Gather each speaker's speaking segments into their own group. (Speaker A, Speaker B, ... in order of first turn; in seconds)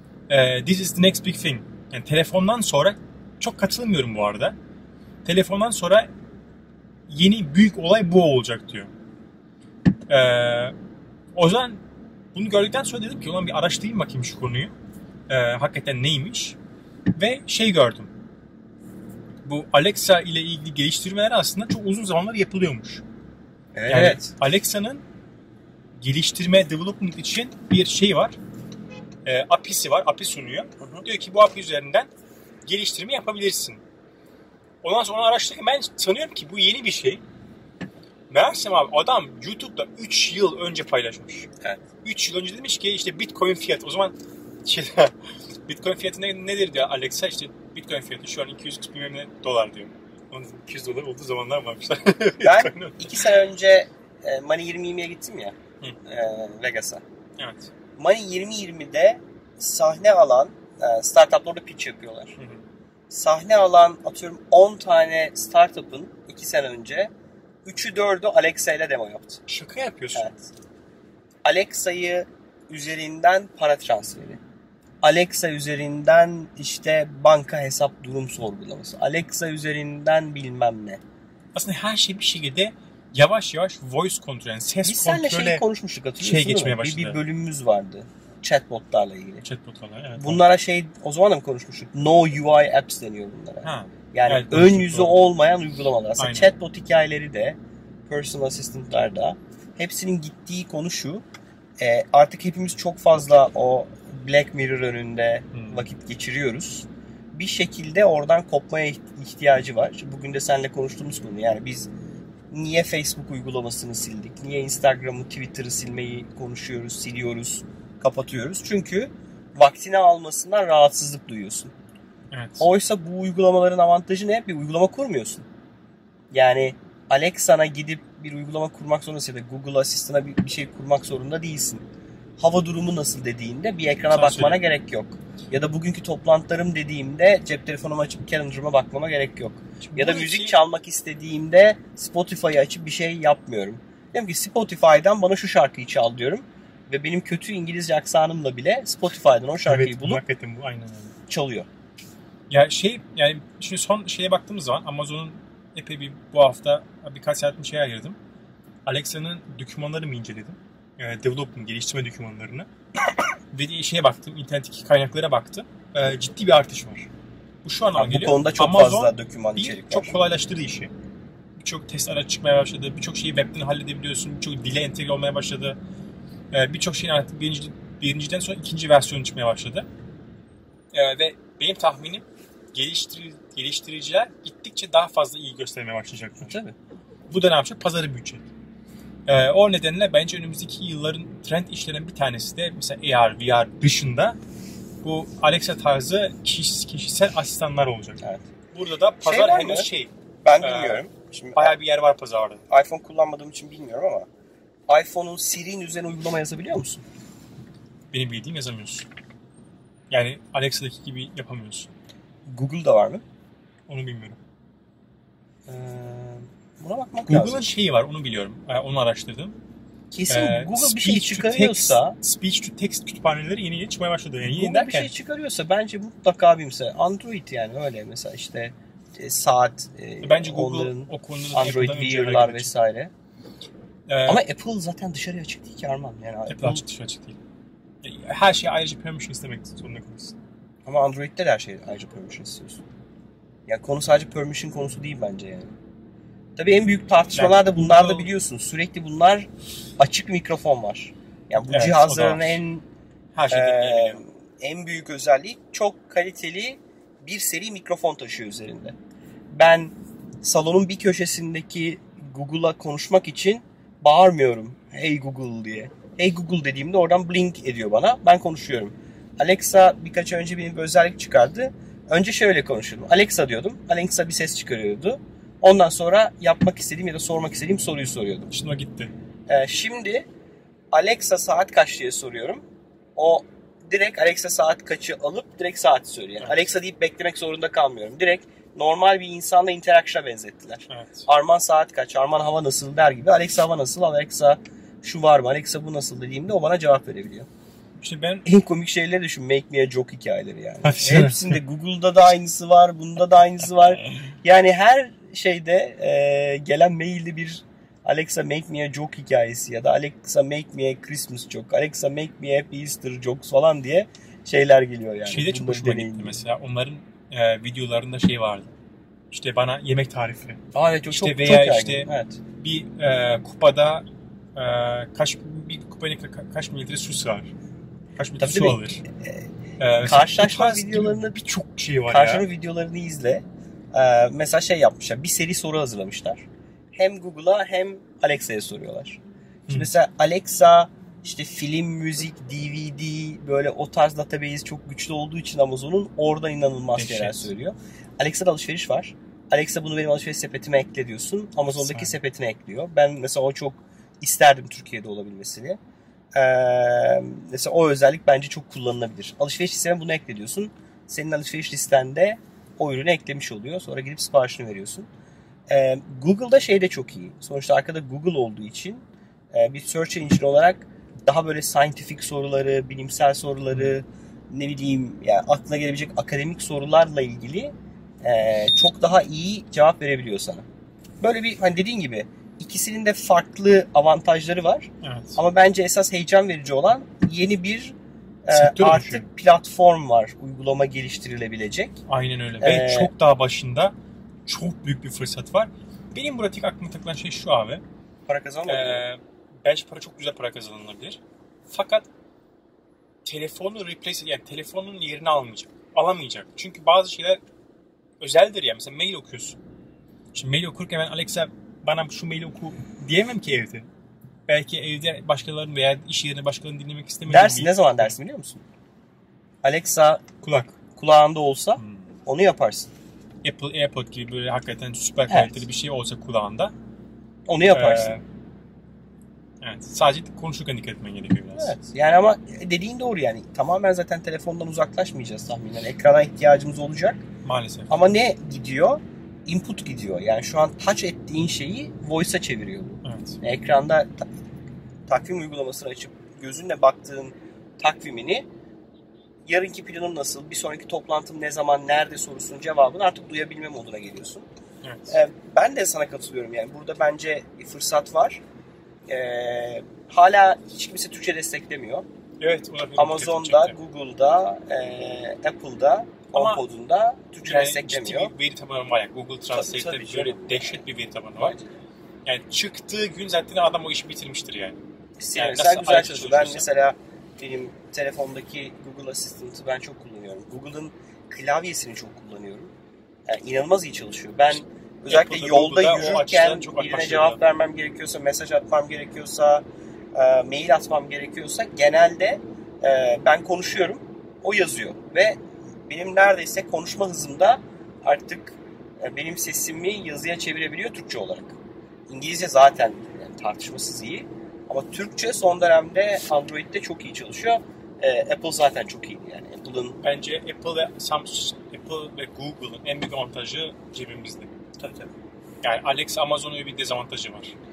Speaker A: 0.3-4.5, 5.2-6.1, 7.1-8.9, 10.1-10.7, 11.3-11.8, 12.3-14.7, 15.3-16.6, 17.1-18.1, 19.4-23.0, 23.9-25.0, 26.0-28.4, 29.2-32.1, 32.6-33.8, 34.8-37.2, 38.3-41.5, 42.0-45.1, 45.7-53.2, 57.4-57.7, 62.4-62.6, 69.5-70.3, 81.5-85.6, 86.2-87.2, 89.4-90.4, 93.6-95.2, 96.2-96.5, 105.5-105.9, 122.3-122.7, 134.1-134.6, 139.8-140.6, 149.7-151.1, 152.5-158.2, 158.8-162.7, 163.5-167.1, 167.6-170.9, 171.6-175.8, 176.5-179.9, 180.9-186.6, 187.3-188.4, 189.3-194.4, 195.0-198.2, 198.7-202.6, 208.1-209.1, 210.1-211.9, 213.9-214.4, 217.3-219.6, 220.3-225.1, 230.2-232.7, 234.1-234.4, 236.5-237.4, 238.0-240.3, 247.3-248.3, 251.7-252.6, 253.3-254.2, 278.5-279.1, 290.9-291.3, 298.0-298.4, 300.8-301.6, 315.2-318.7, 319.3-322.1, 322.6-324.0, 324.6-327.5, 328.2-329.0, 329.8-332.5, 346.9-347.5, 351.7-352.1, 385.0-385.4, 388.5-389.2, 392.1-393.9, 394.4-397.8, 398.7-402.1, 403.2-407.4, 408.2-409.6, 410.3-413.9, 414.5-418.1, 420.4-420.8, 421.8-422.2, 423.4-426.7, 427.7-428.2, 429.6-431.7, 437.4-438.0, 443.0-443.4, 454.8-455.1, 462.4-463.7, 466.3-466.6, 467.4-471.6, 472.2-474.8, 475.3-476.6, 485.1-487.4, 510.0-514.5, 515.6-517.5
Speaker B: 23.7-24.3, 30.8-31.0, 52.4-55.5, 56.0-57.0, 58.0-62.4, 63.1-67.1, 67.6-69.4, 71.4-74.4, 75.0-81.0, 84.8-89.4, 90.2-97.6, 98.1-101.2, 101.8-111.9, 112.5-121.7, 122.6-125.5, 126.3-131.8, 132.4-150.2, 151.3-151.7, 167.9-170.2, 186.4-186.7, 198.2-198.5, 199.2-199.9, 200.4-201.8, 202.7-204.3, 204.9-207.0, 212.5-213.2, 215.7-217.7, 220.1-222.2, 224.5-233.1, 234.2-236.8, 240.8-242.8, 243.7-245.7, 246.6-252.8, 253.5-258.9, 259.5-278.5, 279.5-280.3, 280.9-282.6, 283.2-297.5, 298.4-316.4, 320.7-322.4, 328.4-329.5, 330.0-331.4, 332.1-355.8, 356.3-365.1, 365.7-380.6, 381.2-392.0, 392.6-393.1, 398.3-399.0, 417.3-418.6, 419.6-420.2, 420.9-422.9, 425.3-425.6, 427.5-428.2, 431.5-437.2, 437.9-444.2, 445.1-448.4, 449.5-454.5, 455.1-458.4, 459.1-462.0, 463.0-468.3, 469.5-470.8, 475.2-482.7, 483.3-489.6, 490.1-501.6, 502.1-510.0, 514.8-515.1